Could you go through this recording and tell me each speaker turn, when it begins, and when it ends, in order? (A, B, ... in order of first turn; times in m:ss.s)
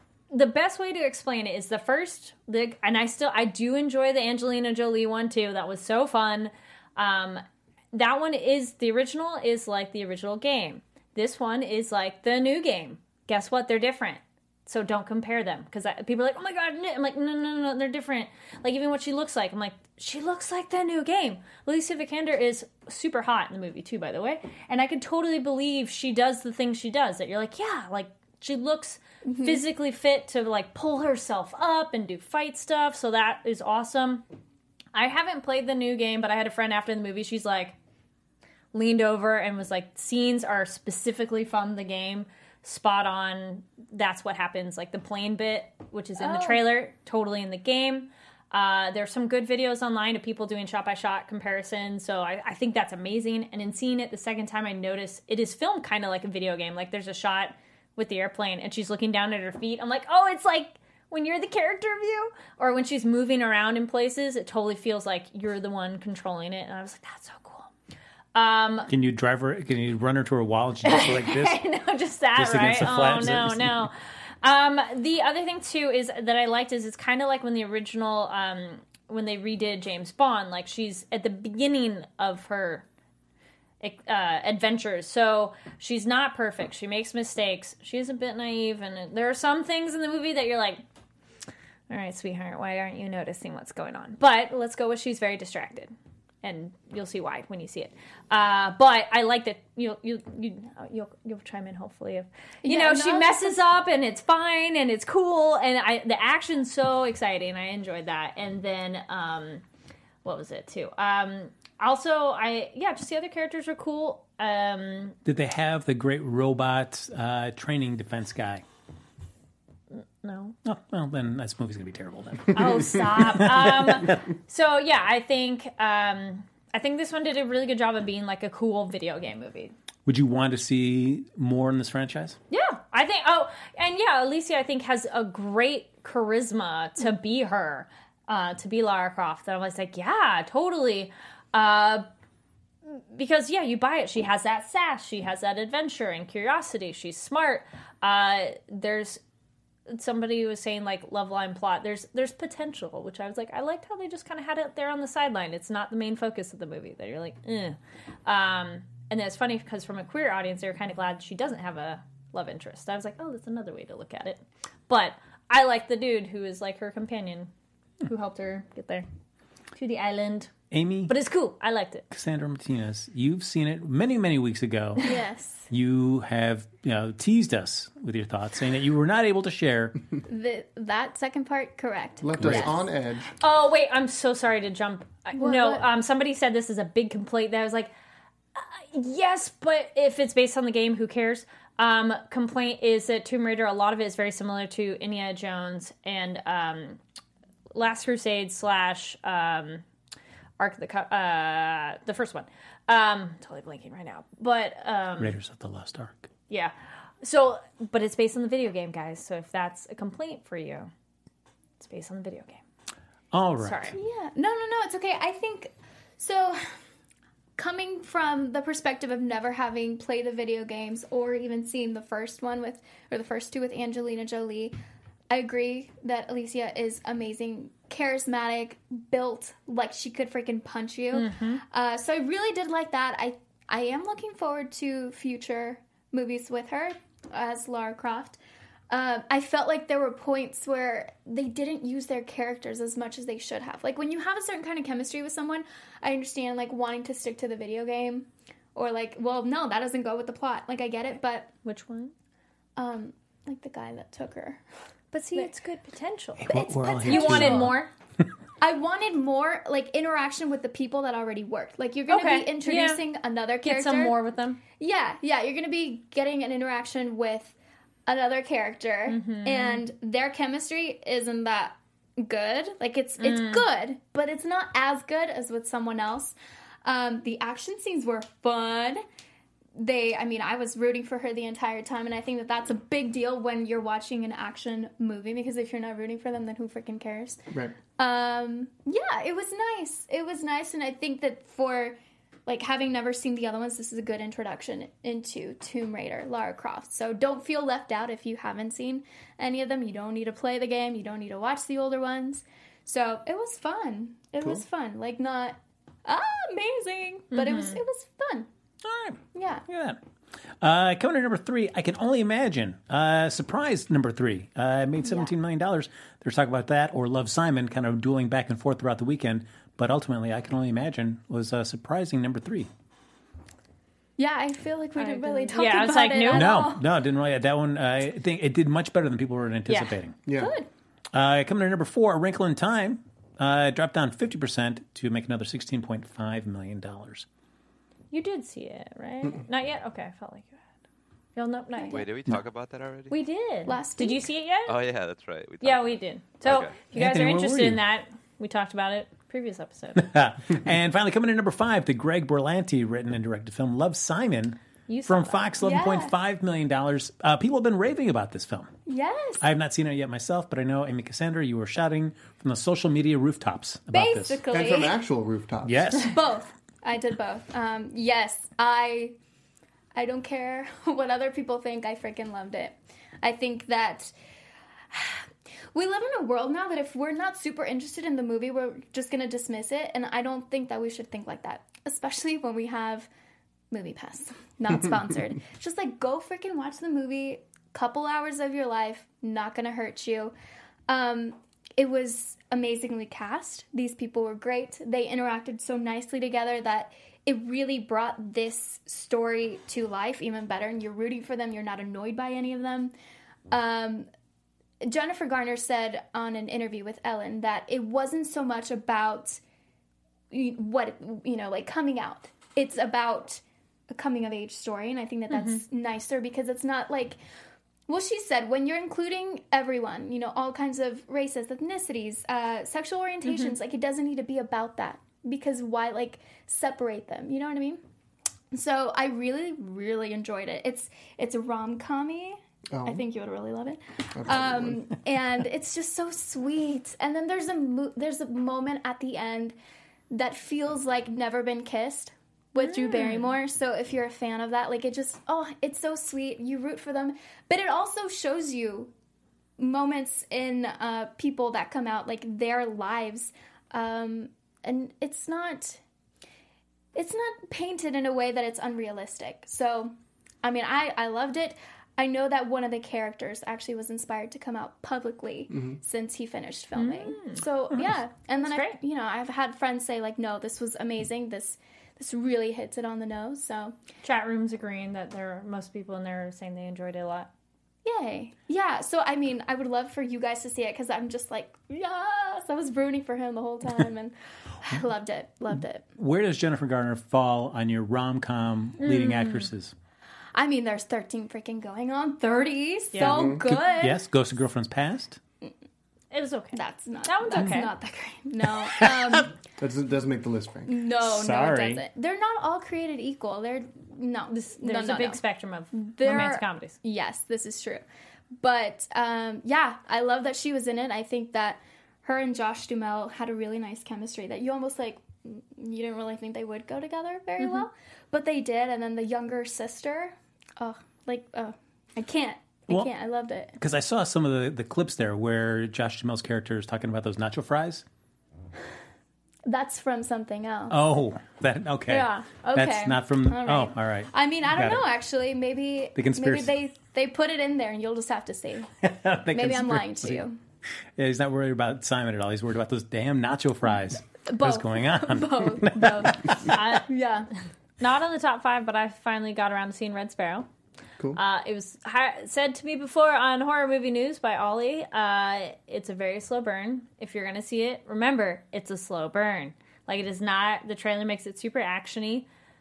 0:00.3-0:34.2 A
0:29.2-0:29.6 B
0:34.9-0:37.8 A
0:38.7-1:07.7 A
0:46.2-0:46.6 B
1:08.4-1:08.9 A
1:08.9-1:11.6 C
1:10.8-1:22.9 A
1:12.4-1:13.9 C
1:23.8-1:30.8 A
1:31.9-1:49.6 A
1:42.6-1:43.6 B
1:50.2-1:55.2 A
1:55.2-1:58.6 C
2:00.2-2:00.6 A
2:00.6-2:04.3 C
2:02.6-2:09.7 A
2:10.1-2:12.4 C
2:12.5-2:22.1 A
2:22.8-2:29.2 A
2:29.9-2:47.5 A
2:48.0-2:49.1 A
2:49.8-2:50.5 A
2:50.7-2:51.2 C
2:51.1-2:52.1 A
2:52.1-2:55.0 C
2:55.0-2:55.7 B
2:55.7-3:00.0 C
3:00.3-3:02.8 B
3:02.2-3:03.3 D
3:02.4-3:02.7 C
3:03.4-3:07.9 A
3:05.4-3:05.9 B
3:08.6-3:17.0 A
3:17.7-3:19.8 A
3:20.6-3:25.3 A
3:25.2-3:26.3 C
3:26.5-3:30.9 A
3:31.8-3:32.6 A
3:33.3-3:34.0 C
3:33.6-3:34.0 A
3:34.0-3:36.7 B
3:37.6-3:44.8 B
3:45.3-3:58.4 B
3:51.1-3:51.6 A
3:58.9-4:11.5 B
4:11.6-4:12.1 A
4:12.8-4:14.6 B
4:15.1-4:17.9 A
4:16.4-4:17.8 C
4:16.5-4:17.8 B
4:18.6-4:24.2 B
4:22.1-4:23.0 A
4:23.6-4:24.6 A
4:24.8-4:27.6 B
4:28.1-4:39.0 B
4:29.1-4:29.8 A
4:33.2-4:33.7 A
4:39.8-4:47.4 B
4:47.5-4:47.8 D
4:48.0-5:08.5 B
5:07.3-5:07.8 A
5:08.8-5:10.0 C
5:09.3-5:09.6 B
5:10.6-5:22.7 C
5:15.0-5:15.3 B
5:24.2-5:26.8 B
5:25.0-5:26.7 A
5:26.3-5:30.2 C
5:29.7-5:30.0 A
5:30.3-5:30.5 D
5:30.3-5:30.7 B
5:31.1-5:37.3 C
5:38.1-5:40.6 A
5:41.4-5:42.1 A
5:41.8-5:42.0 B
5:41.9-5:43.2 E
5:43.1-5:44.8 A
5:43.7-5:44.3 B
5:44.7-5:46.8 E
5:45.6-5:50.1 A
5:46.8-5:47.8 C
5:50.0-5:58.7 C
5:54.9-5:55.5 A
5:55.6-5:56.1 B
5:58.9-5:59.5 B
5:59.4-6:04.4 C
6:03.9-6:05.0 B
6:04.5-6:06.0 D
6:05.6-6:06.2 C
6:06.0-6:09.2 B
6:09.9-6:14.1 B
6:14.9-6:23.1 B
6:23.7-6:30.3 B
6:30.9-6:42.9 B
6:43.5-6:44.1 B
6:44.8-6:49.4 B
6:50.3-6:57.2 B
6:55.3-6:55.6 A
6:57.9-7:07.8 B
7:03.3-7:03.5 A
7:08.5-7:19.6 B
7:12.7-7:13.0 D
7:14.2-7:14.8 D
7:20.1-7:28.9 B
7:22.6-7:23.3 A
7:29.6-7:35.8 B
7:36.9-7:53.8 B
7:45.5-7:45.8 D
7:46.8-7:47.4 A
7:48.4-7:48.8 A
7:54.0-7:57.3 A
7:57.8-8:05.8 B
8:06.0-8:09.7 C
8:08.8-8:09.5 A
8:10.4-8:14.0 B
8:12.9-8:13.4 A
8:13.0-8:13.4 D
8:13.4-8:15.2 C
8:16.1-8:17.8 A
8:16.5-8:19.3 B
8:18.6-8:19.3 C
8:19.6-8:20.7 D
8:20.7-8:27.8 B
8:21.0-8:21.8 C
8:24.3-8:26.8 A
8:28.4-8:43.6 B
8:43.6-8:47.8 C
8:49.5-8:50.8 B
8:50.7-8:54.8 C
8:51.9-8:52.3 A
8:52.3-8:58.7 B
8:56.0-8:56.5 C
8:58.8-9:00.2 C
8:59.3-9:00.4 B
9:01.0-9:06.6 C
9:04.3-9:07.3 B
9:06.4-9:06.9 A
9:07.8-9:10.5 A
9:11.2-9:22.3 A